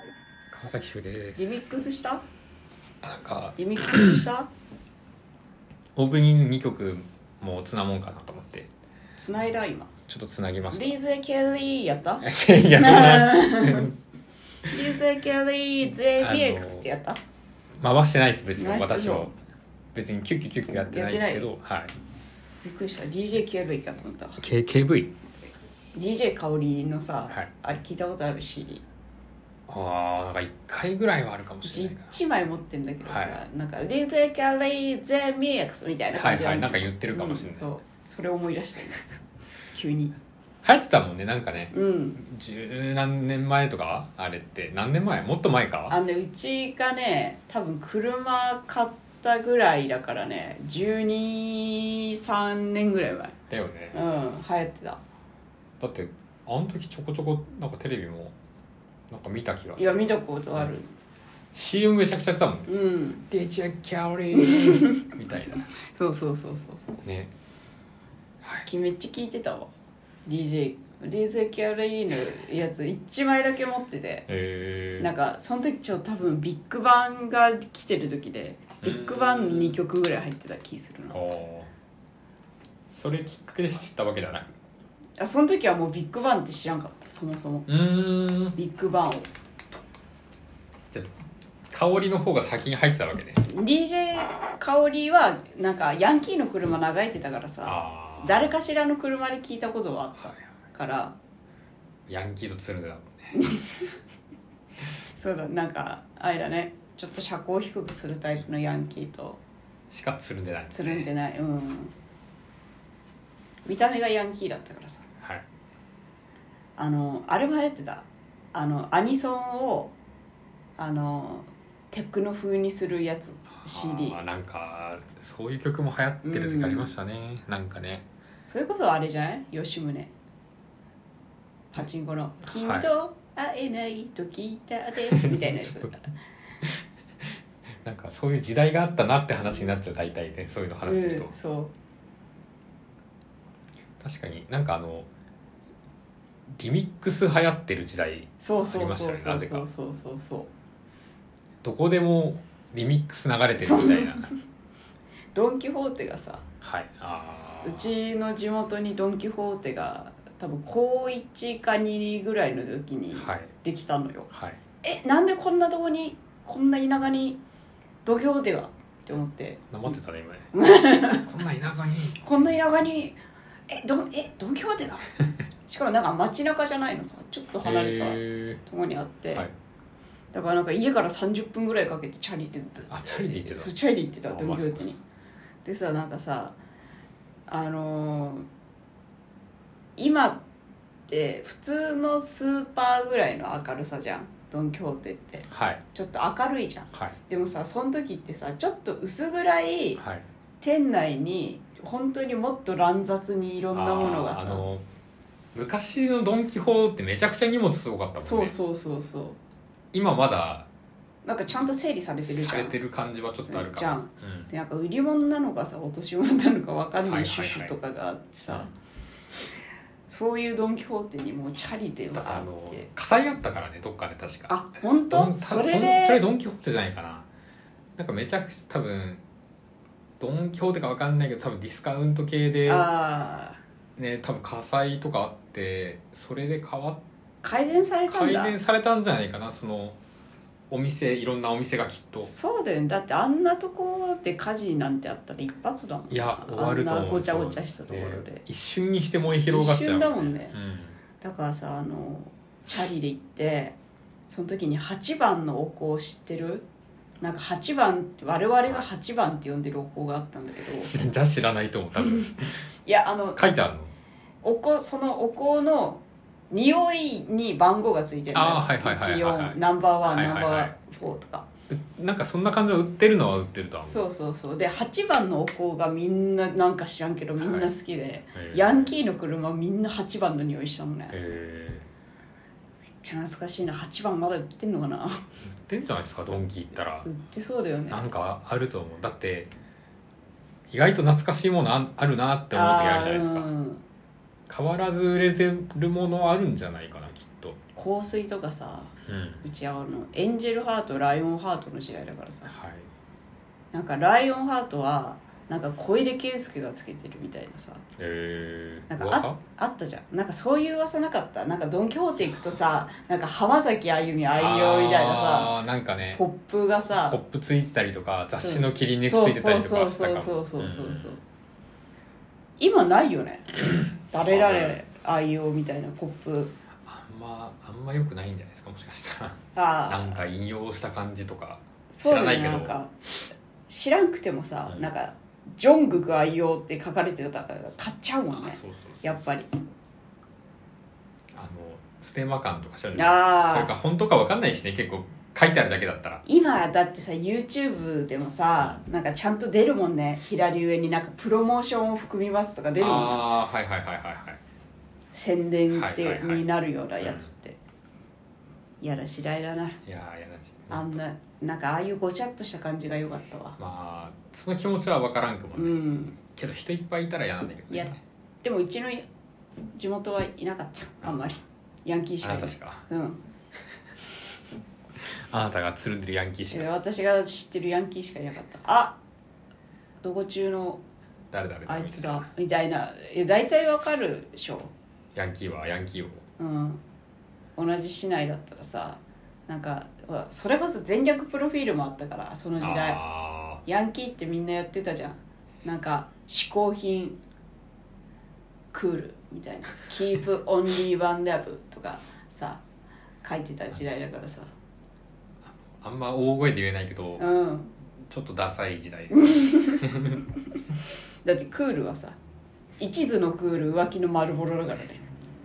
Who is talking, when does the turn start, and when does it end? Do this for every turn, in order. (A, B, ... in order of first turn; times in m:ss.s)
0:00.5-0:01.7 A
0:01.4-0:02.2 B
0:03.0-0:04.2 A
0:03.6-0:04.5 B
0:06.0-0:08.7 A
0:09.2-0:09.9 B
0:10.1-0:11.0 A
0:10.7-0:13.9 B
0:12.2-0:14.0 A
0:14.7-0:17.2 B
0:16.2-0:16.9 A
0:17.8-0:19.3 A
0:18.6-0:19.3 B
0:19.9-0:21.9 A
0:20.8-0:21.5 B
0:22.6-0:24.4 B
0:24.4-0:25.1 A
0:26.0-0:28.8 B
0:29.7-0:32.2 A
0:31.6-0:39.0 B
0:33.0-0:33.4 A
0:36.1-0:37.7 A
0:39.7-0:40.2 B
0:40.6-0:46.0 A
0:41.7-0:42.2 B
0:45.9-0:53.4 B
0:53.5-0:54.0 A
0:53.9-0:55.0 B
0:55.8-0:58.4 A
0:59.1-1:00.7 A
0:59.8-1:00.9 B
1:01.5-1:02.7 A
1:02.7-1:03.2 B
1:03.3-1:05.7 A
1:04.3-1:05.1 B
1:05.7-1:07.0 B
1:07.0-1:07.3 A
1:08.4-1:09.7 B
1:10.3-1:14.3 B
1:14.3-1:15.1 A
1:15.0-1:21.2 B
1:18.8-1:19.8 A
1:21.1-1:21.7 A
1:22.9-1:24.5 A
1:25.2-1:27.7 B
1:27.7-1:28.6 A
1:28.6-1:29.3 B
1:31.7-1:33.4 A
1:33.4-1:41.2 B
1:37.6-1:38.5 A
1:42.1-1:43.4 A
1:43.3-1:43.9 B
1:45.1-1:49.4 B
1:49.9-1:51.1 A
1:50.7-1:51.9 B
1:53.7-1:55.0 B
1:56.8-1:59.9 B
2:00.8-2:04.2 B
2:03.5-2:08.0 A
2:06.2-2:06.9 B
2:08.4-2:10.1 B
2:11.7-2:16.0 B
2:12.6-2:12.9 A
2:15.1-2:16.0 A
2:17.8-2:21.3 A
2:20.8-2:21.7 B
2:24.0-2:25.1 A
2:26.5-2:29.7 A
2:28.4-2:30.5 B
2:31.6-2:34.3 A
2:33.6-2:34.3 B
2:35.3-2:36.4 B
2:36.6-2:37.9 A
2:37.6-2:44.3 B
2:43.2-2:43.5 A
2:44.3-2:44.6 A
2:44.8-2:47.4 B
2:48.0-2:49.6 B
2:49.7-2:50.5 A
2:50.5-2:51.3 B
2:51.2-2:52.5 A
2:52.2-2:53.2 B
2:53.7-2:55.1 B
2:55.7-2:59.5 B
2:57.6-2:58.6 A
3:00.3-3:05.0 B
3:02.9-3:03.7 A
3:04.3-3:04.9 A
3:05.6-3:06.6 B
3:07.5-3:08.5 B
3:10.0-3:10.4 B
3:11.1-3:20.0 B
3:15.5-3:15.8 A
3:20.0-3:20.2 A
3:20.6-3:24.6 B
3:23.7-3:24.8 A
3:25.6-3:28.6 A
3:28.2-3:29.4 B
3:29.9-3:30.7 A
3:31.2-3:32.8 B
3:32.2-3:34.5 A
3:33.4-3:38.7 B
3:37.0-3:37.7 A
3:40.1-3:42.9 B
3:42.1-3:47.3 A
3:44.5-3:46.2 B
3:48.0-3:49.2 A
3:50.2-3:52.9 A
3:52.7-3:53.6 B
3:54.0-3:57.0 A
3:57.4-3:58.6 B
3:58.1-4:00.0 A
4:00.7-4:02.3 A
4:02.2-4:08.4 B
4:06.1-4:11.0 A
4:09.5-4:10.6 B
4:11.2-4:13.8 B
4:14.3-4:16.7 B
4:17.2-4:20.9 B
4:20.8-4:22.5 A
4:22.0-4:22.3 B
4:22.9-4:23.4 B
4:23.4-4:23.9 A
4:24.4-4:31.5 B
4:28.3-4:30.7 A
4:31.7-4:34.0 A
4:33.9-4:41.2 B
4:37.4-4:37.7 A
4:38.3-4:38.9 A
4:41.1-4:41.8 A
4:43.0-4:45.2 B
4:45.6-4:47.1 A
4:47.1-4:48.1 B
4:47.9-4:49.5 A
4:50.7-4:53.5 A
4:52.5-4:53.8 B
4:54.5-4:57.6 A
4:57.8-5:02.5 B
4:59.0-4:59.4 A
5:02.5-5:02.9 A
5:03.7-5:07.8 B
5:08.0-5:09.4 A
5:08.9-5:15.6 B
5:14.3-5:16.2 A
5:16.1-5:17.2 B
5:17.0-5:21.2 A
5:18.3-5:21.2 B
5:22.6-5:26.5 B
5:24.3-5:24.8 A
5:26.8-5:32.8 A
5:29.6-5:30.2 B
5:31.9-5:32.9 B
5:33.7-5:39.5 B
5:38.3-5:39.2 A
5:41.3-5:46.2 A
5:43.0-5:43.7 B
5:46.3-5:53.2 B
5:48.6-5:48.8 A
5:52.8-5:54.4 A
5:55.1-5:57.6 B
5:55.7-5:56.4 A
5:57.0-5:57.3 A
5:58.8-5:59.8 B
5:59.9-6:01.0 A
6:00.7-6:03.6 B
6:03.6-6:08.0 A
6:05.6-6:06.2 B
6:07.7-6:09.1 B
6:09.7-6:13.2 B
6:12.2-6:12.9 A
6:15.3-6:16.7 A
6:16.5-6:19.0 B
6:20.0-6:20.8 B
6:21.3-6:22.3 A
6:21.7-6:24.7 B
6:25.2-6:26.2 A
6:26.4-6:26.8 B
6:27.6-6:33.0 B
6:32.6-6:33.6 A
6:33.6-6:37.2 B
6:38.7-6:42.6 B
6:43.2-6:44.5 B
6:45.4-6:47.3 A
6:47.2-6:47.7 B
6:48.1-6:50.2 A
6:49.2-6:49.8 B
6:51.2-6:52.2 B
6:52.8-6:55.0 B